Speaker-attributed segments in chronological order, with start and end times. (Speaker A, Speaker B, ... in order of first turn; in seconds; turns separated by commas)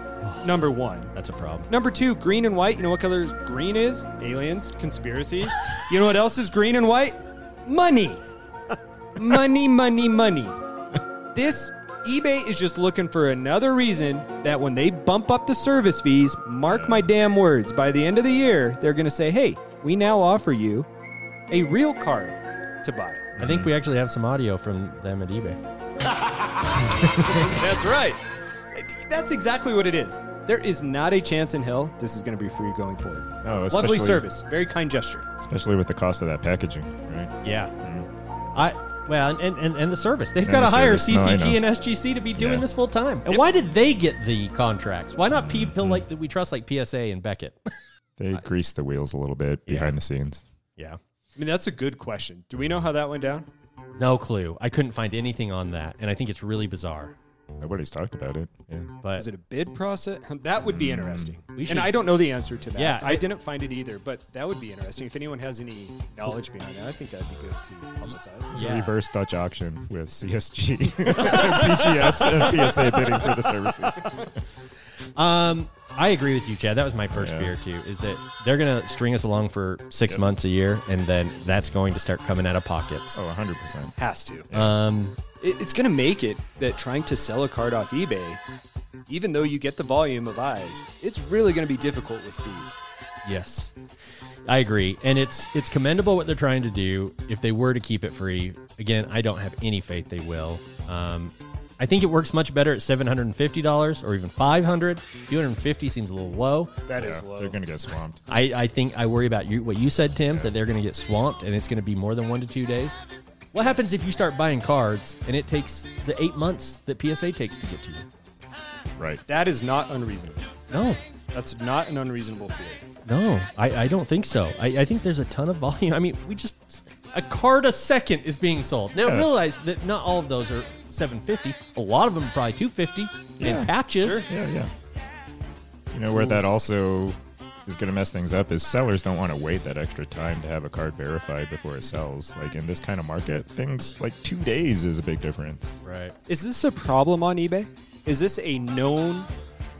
Speaker A: 0.2-1.7, Speaker B: 0.4-1.1, Speaker B: 1.7-8.2, Speaker B: 9.2-10.6, Speaker B: 11.3-20.9, Speaker C: 16.7-17.1, Speaker B: 21.5-23.3, Speaker C: 23.4-23.7, Speaker A: 23.4-25.6, Speaker B: 27.0-35.3, Speaker C: 33.4-34.2, Speaker C: 35.4-38.1, Speaker A: 37.4-37.7, Speaker A: 38.5-47.7, Speaker C: 40.4-41.6, Speaker C: 42.3-42.6, Speaker C: 45.4-46.0, Speaker C: 48.2-50.4, Speaker A: 49.7-49.9, Speaker B: 51.4-53.5, Speaker A: 54.0-57.1, Speaker C: 57.6-58.9, Speaker B: 59.1-68.5, Speaker C: 60.7-61.3, Speaker A: 61.5-62.0, Speaker A: 62.8-63.2, Speaker C: 68.5-74.2, Speaker A: 68.5-68.9, Speaker B: 71.2-73.2, Speaker A: 75.2-83.2, Speaker C: 77.1-77.5, Speaker C: 83.1-84.0, Speaker B: 84.0-84.5, Speaker C: 84.5-84.7, Speaker A: 84.5-85.2, Speaker B: 85.4-88.4, Speaker B: 89.1-92.8, Speaker A: 93.2-93.7, Speaker A: 94.4-106.7, Speaker B: 106.9-107.6, Speaker C: 107.0-108.2, Speaker A: 108.3-113.0, Speaker A: 113.5-118.1, Speaker C: 119.0-119.2, Speaker B: 119.3-120.5, Speaker A: 120.7-121.0, Speaker B: 121.3-122.8, Speaker A: 123.0-134.3, Speaker C: 133.4-133.7, Speaker B: 134.0-134.3, Speaker C: 134.2-134.7, Speaker C: 135.9-145.8, Speaker A: 145.8-146.2, Speaker B: 146.3-149.3